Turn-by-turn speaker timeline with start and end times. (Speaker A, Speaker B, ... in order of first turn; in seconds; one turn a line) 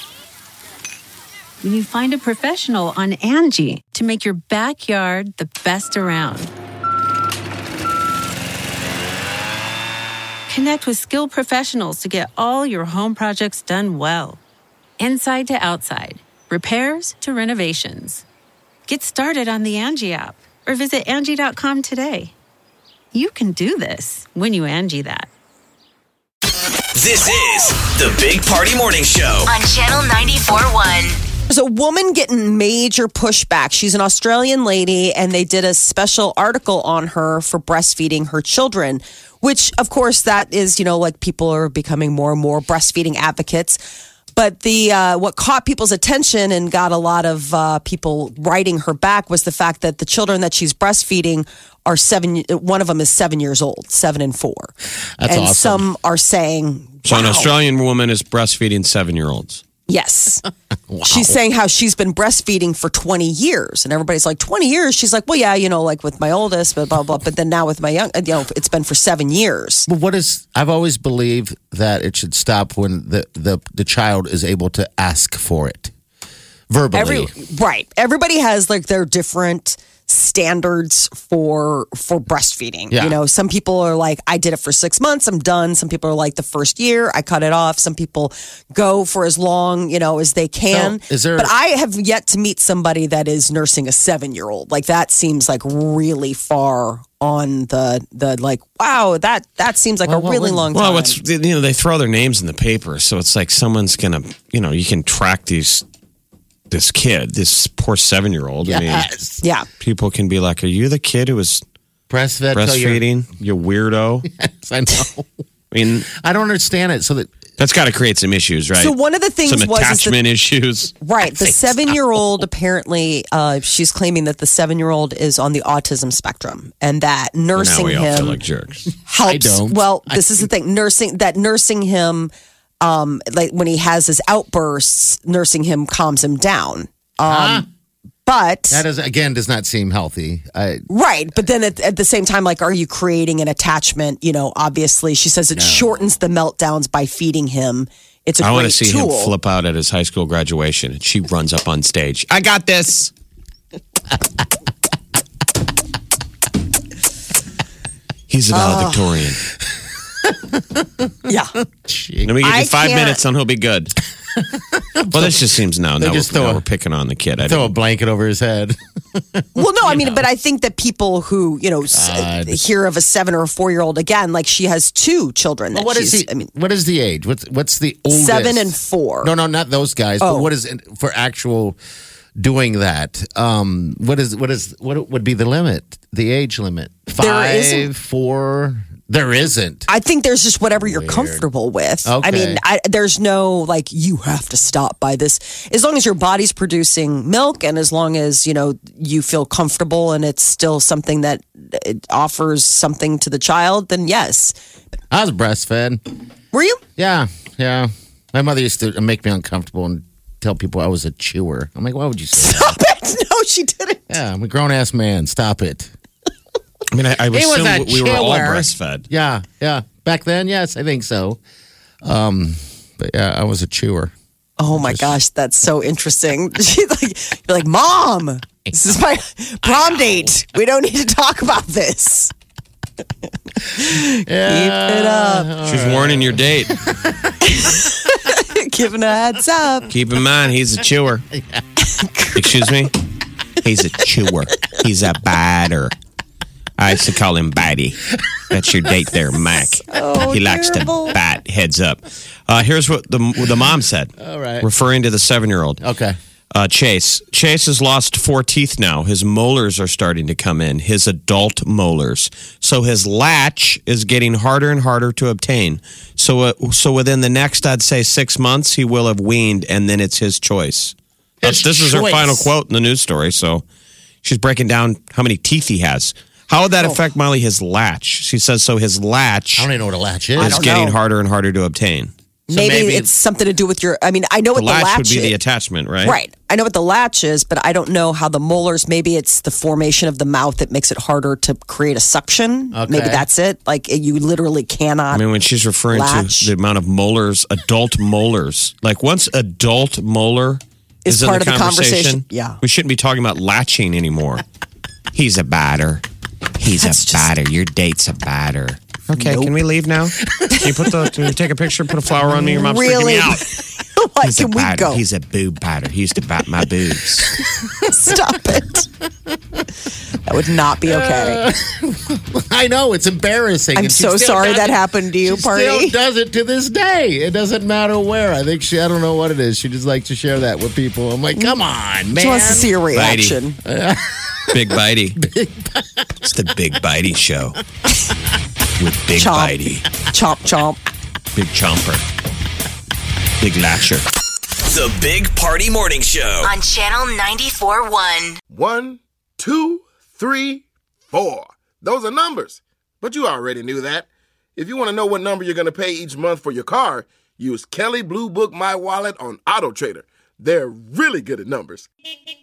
Speaker A: 1.6-6.5
Speaker A: 10.5-14.4
Speaker A: 15.0-18.2
Speaker A: 18.9-22.3
Speaker A: 23.1-25.3
Speaker B: 27.0-29.5
Speaker C: 29.4-31.2
Speaker D: 31.5-43.8
Speaker D: 44.4-54.7
Speaker E: 55.2-55.9
Speaker D: 55.2-57.4
Speaker F: 57.0-59.6
Speaker E: 57.1-57.5
Speaker D: 59.9-60.5
Speaker E: 60.9-61.4
Speaker D: 61.0-69.9
Speaker E: 69.9-75.9
Speaker E: 76.7-77.3
Speaker D: 76.9-101.2
Speaker E: 82.9-83.2
Speaker E: 90.7-91.5
Speaker E: 100.0-100.7
Speaker F: 100.7-105.8
Speaker F: 106.7-109.1
Speaker E: 108.6-109.4
Speaker F: 109.8-111.6
Speaker E: 112.1-113.0
Speaker F: 112.5-114.3
Speaker E: 114.2-115.3
Speaker F: 115.7-116.1
Speaker E: 116.1-117.3
Speaker F: 117.6-120.9
Speaker D: 118.8-120.2
Speaker D: 121.0-128.4
Speaker F: 127.5-128.8
Speaker D: 129.1-132.3
Speaker E: 129.2-130.5
Speaker D: 132.8-137.7
Speaker E: 137.2-137.7
Speaker D: 138.3-138.8
Speaker E: 138.7-140.9
Speaker D: 140.9-149.3
Speaker E: 145.5-145.9
Speaker F: 148.4-153.1
Speaker F: 158.3-159.4
Speaker D: 158.5-159.2
Speaker E: 160.2-160.9
Speaker D: 161.3-161.6
Speaker E: 161.8-162.3
Speaker F: 162.2-164.0
Speaker D: 162.4-163.2
Speaker E: 164.7-165.4
Speaker F: 165.1-167.8
Speaker E: 166.0-166.6
Speaker E: 167.4-170.2
Speaker D: 169.6-176.5
Speaker E: 171.9-172.6
Speaker E: 175.7-181.8
Speaker D: 178.1-179.3
Speaker D: 180.2-180.5
Speaker E: 182.4-189.9
Speaker D: 187.2-187.9
Speaker D: 189.9-204.5
Speaker E: 190.8-191.4
Speaker E: 192.1-192.6
Speaker E: 205.1-206.0
Speaker D: 206.5-206.8
Speaker E: 207.0-212.8
Speaker D: 212.4-214.2
Speaker E: 214.1-215.9
Speaker F: 216.9-219.1
Speaker E: 217.3-221.4
Speaker E: 222.0-224.1
Speaker D: 224.6-232.3
Speaker E: 224.7-225.2
Speaker D: 233.8-235.6
Speaker E: 234.3-237.3
Speaker F: 235.7-236.7
Speaker D: 237.4-239.9
Speaker F: 239.9-241.3
Speaker D: 241.8-242.8
Speaker F: 242.3-243.0
Speaker F: 243.6-245.9
Speaker F: 246.8-255.8
Speaker D: 249.7-251.2
Speaker E: 254.2-254.7
Speaker E: 255.8-256.2
Speaker F: 256.5-273.6
Speaker E: 271.4-272.5
Speaker F: 274.2-279.7
Speaker E: 279.6-280.6
Speaker D: 280.4-281.0
Speaker F: 280.4-283.1
Speaker D: 282.5-285.4
Speaker F: 284.5-286.2
Speaker D: 286.0-295.3
Speaker E: 292.7-293.3
Speaker F: 295.1-304.4
Speaker D: 295.9-296.5
Speaker D: 301.1-302.6
Speaker F: 305.1-306.0
Speaker F: 306.6-313.6
Speaker D: 306.7-307.3
Speaker D: 309.1-309.6
Speaker D: 312.3-315.0
Speaker F: 314.2-317.4
Speaker D: 317.5-318.9
Speaker D: 320.2-321.4
Speaker E: 320.9-332.8
Speaker D: 323.8-326.0
Speaker D: 332.1-333.6
Speaker F: 332.9-333.4
Speaker E: 333.6-334.6
Speaker F: 334.5-335.2
Speaker E: 335.2-335.9
Speaker F: 336.2-337.6
Speaker F: 338.8-339.9
Speaker D: 339.1-340.8
Speaker F: 341.3-342.0
Speaker F: 343.4-344.1
Speaker B: 344.7-346.5
Speaker C: 346.4-348.4
Speaker G: 348.5-361.9